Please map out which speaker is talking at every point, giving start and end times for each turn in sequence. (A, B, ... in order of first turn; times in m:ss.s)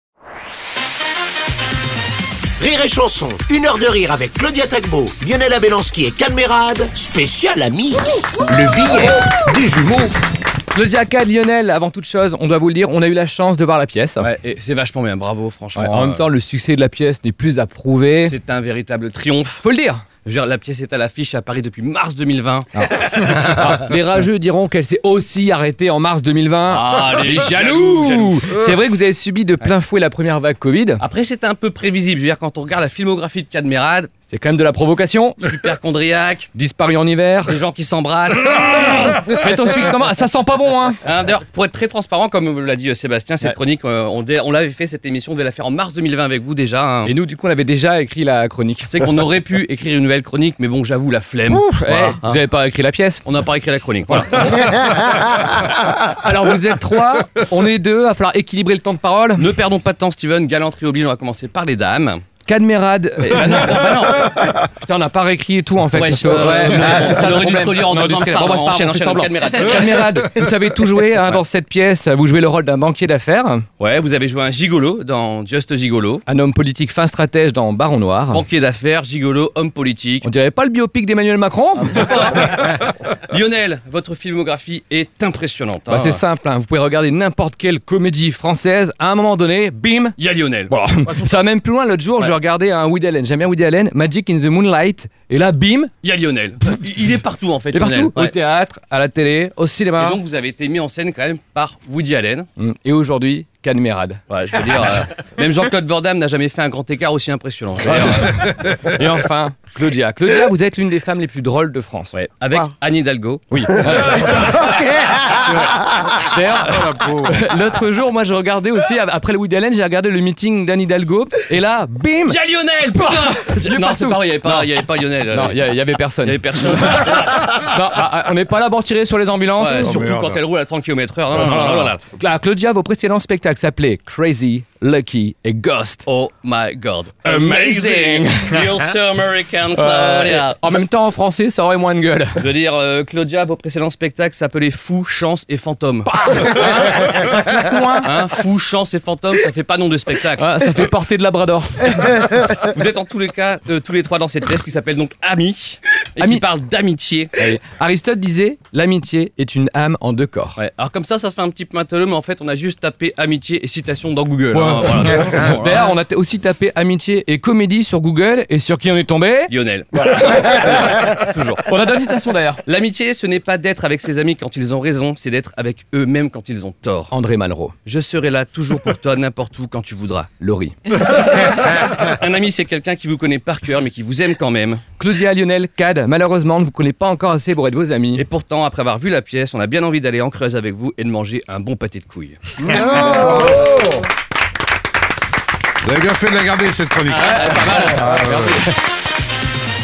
0:02.6-0:10.1 A
0:10.7-0:14.3 B
0:14.2-0:16.2 C
0:15.8-0:18.3 B
0:18.2-0:19.6 C
0:19.6-0:20.0 B
0:20.2-0:23.6 C
0:22.8-0:31.0 B
0:26.7-0:28.7 C
0:31.0-0:34.1 C
0:34.3-0:35.4 B
0:35.4-0:36.5 C
0:36.5-0:37.6 B
0:37.5-0:39.2 C
0:38.7-0:41.0 B
0:41.0-0:47.1 C
0:47.0-0:49.0 B
0:48.8-0:52.4 C
0:51.5-0:53.2 B
0:53.2-0:54.8 C
0:54.3-0:59.4 B
0:59.4-1:02.2 C
1:02.4-1:13.6 B
1:03.2-1:04.5 C
1:05.9-1:10.4 C
1:13.8-1:16.2 C
1:16.3-1:18.4 B
1:18.3-1:20.3 C
1:20.2-1:22.6 B
1:21.8-1:26.2 C
1:25.9-1:30.2 B
1:30.2-1:31.4 C
1:30.7-1:35.9 B
1:36.0-1:38.4 C
1:37.7-1:40.2 B
1:40.0-1:42.5 C
1:42.6-1:44.2 B
1:44.3-1:48.5 C
1:47.8-1:52.1 B
1:52.1-1:55.5 C
1:53.5-2:02.4 B
1:56.7-1:57.3 D
2:02.2-2:07.6 C
2:03.0-2:04.6 B
2:05.3-2:10.1 B
2:09.6-2:12.0 C
2:09.7-2:10.4 D
2:11.4-2:16.0 B
2:16.0-2:20.7 C
2:17.2-2:18.9 B
2:19.7-2:22.5 B
2:22.4-2:27.3 C
2:26.0-2:28.1 B
2:28.0-2:30.5 C
2:30.4-2:32.4 B
2:32.0-2:37.4 C
2:36.2-2:36.4 B
2:37.4-2:40.6 B
2:40.6-2:45.9 C
2:44.5-2:52.6 B
2:49.5-2:51.6 C
2:52.6-2:57.1 C
2:57.1-2:57.8 B
2:57.8-3:00.3 C
3:00.4-3:00.7 B
3:00.9-3:04.8 C
3:05.0-3:08.2 B
3:08.2-3:12.4 C
3:12.7-3:13.7 D
3:12.9-3:14.0 B
3:13.2-3:13.5 C
3:15.8-3:18.6 D
3:17.1-3:18.7 B
3:17.1-3:18.2 C